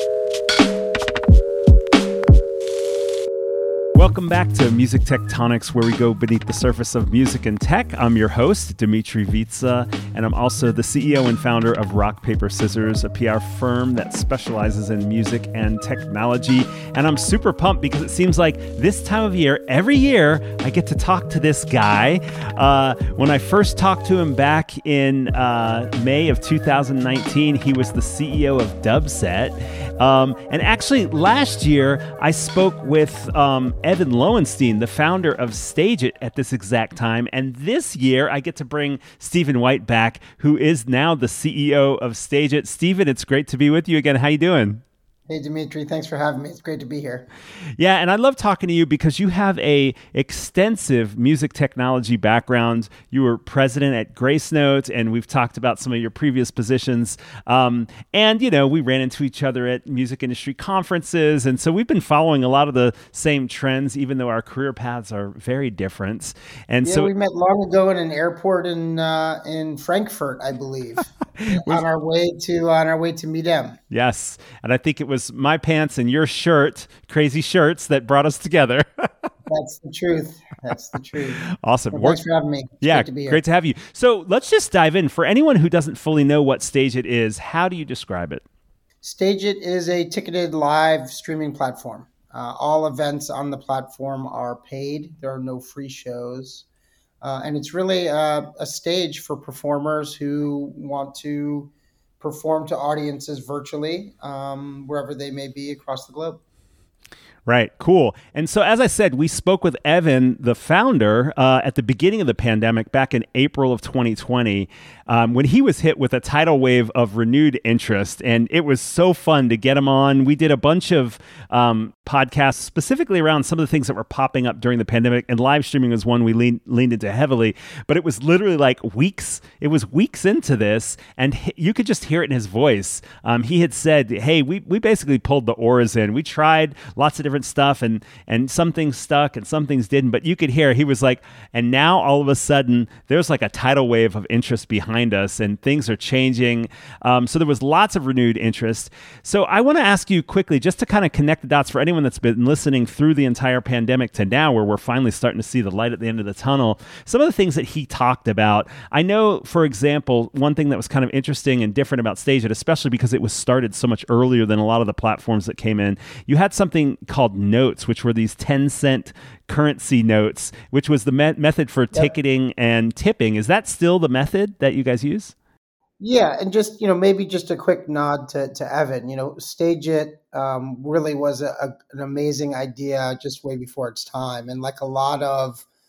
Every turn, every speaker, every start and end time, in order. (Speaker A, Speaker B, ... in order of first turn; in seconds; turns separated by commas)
Speaker A: 3.9-44.8, Speaker B: 45.3-47.3, Speaker A: 47.8-67.1, Speaker B: 66.8-73.8, Speaker A: 71.4-71.8, Speaker A: 73.9-79.3, Speaker B: 79.5-83.4, Speaker A: 81.5-82.2, Speaker A: 82.8-88.4, Speaker B: 89.0-96.7, Speaker B: 97.2-106.4, Speaker A: 107.5-175.3, Speaker B: 176.0-185.7